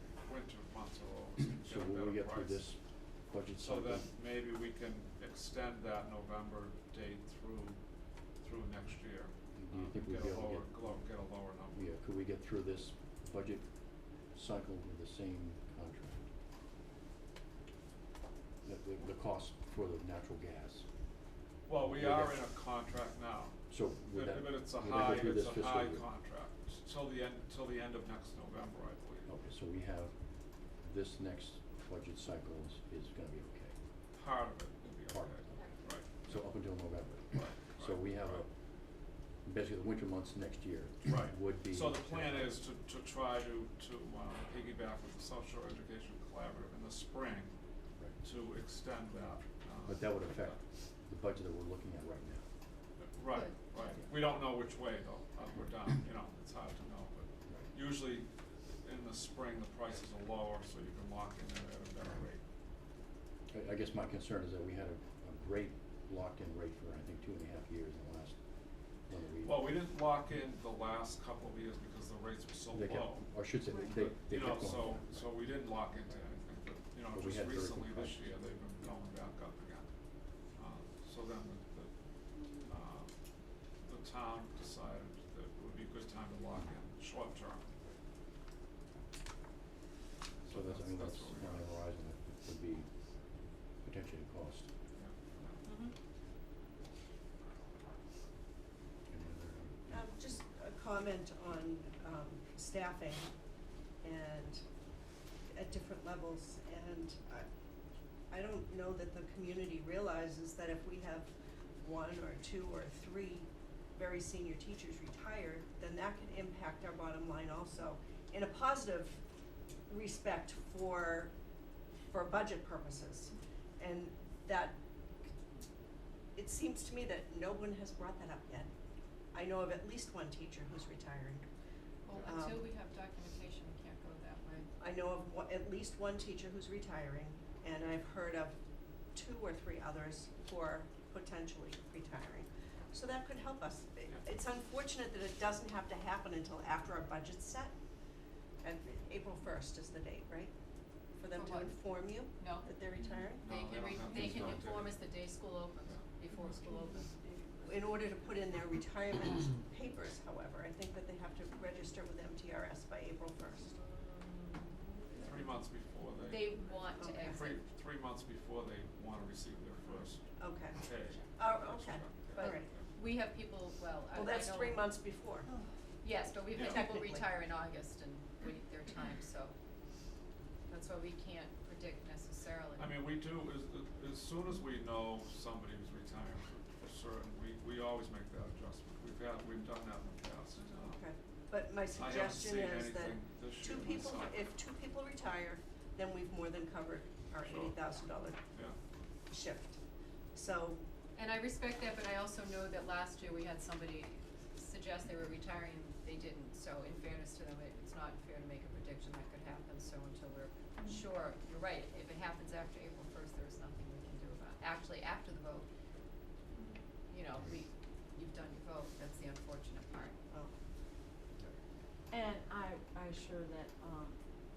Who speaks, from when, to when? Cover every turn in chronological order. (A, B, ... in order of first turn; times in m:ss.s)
0:00.2-0:02.6 A
0:01.6-0:04.1 B
0:03.6-0:07.8 A
0:08.4-0:11.9 A
0:09.5-0:11.0 B
0:11.6-0:13.7 B
0:14.3-0:16.3 B
0:18.6-0:20.9 B
0:21.6-0:29.3 A
0:21.8-0:22.5 B
0:23.7-0:26.0 B
0:29.2-0:30.2 B
0:30.8-0:33.8 B
0:34.1-0:38.4 A
0:35.1-0:38.5 B
0:39.4-0:42.6 B
0:41.0-0:47.5 A
0:48.2-0:50.6 A
0:49.8-0:52.4 B
0:53.0-0:58.3 A
0:53.3-0:53.8 C
0:58.8-1:02.4 A
1:03.5-1:08.4 B
1:09.0-1:09.7 B
1:09.4-1:13.2 A
1:12.7-1:15.3 B
1:13.8-1:19.9 A
1:17.1-1:18.3 B
1:20.5-1:21.9 A
1:22.6-1:23.1 A
1:23.8-1:27.8 A
1:30.4-1:31.7 A
1:30.5-1:32.9 B
1:33.8-1:34.7 B
1:35.0-1:35.6 A
1:39.1-1:40.0 B
1:39.9-1:43.3 D
1:44.0-1:44.6 D
1:45.5-1:47.5 D
1:48.3-1:59.2 D
1:59.9-2:01.3 D
2:02.1-2:04.8 D
2:06.3-2:08.7 D
2:09.3-2:11.4 D
2:12.0-2:14.7 C
2:12.2-2:12.7 D
2:14.8-2:18.6 D
2:19.1-2:27.8 D
2:28.6-2:30.5 D
2:31.2-2:33.4 D
2:31.3-2:32.7 C
2:33.3-2:38.0 C
2:33.4-2:35.0 A
2:37.6-2:43.7 D
2:43.9-2:45.2 E
2:45.2-2:52.8 A
2:46.3-2:47.6 C
2:47.0-2:47.4 D
2:50.4-2:50.8 D
2:51.4-2:52.7 D
2:52.3-2:54.9 C
2:54.1-2:55.5 D
2:56.0-2:59.5 C
2:56.5-2:57.2 D
3:00.7-3:03.0 C
3:02.8-3:11.0 A
3:10.8-3:18.4 D
3:11.9-3:14.4 A
3:17.4-3:17.8 A
3:19.3-3:19.8 D
3:20.3-3:20.8 D
3:21.2-3:35.7 C
3:37.1-3:40.2 C
3:42.1-3:44.2 E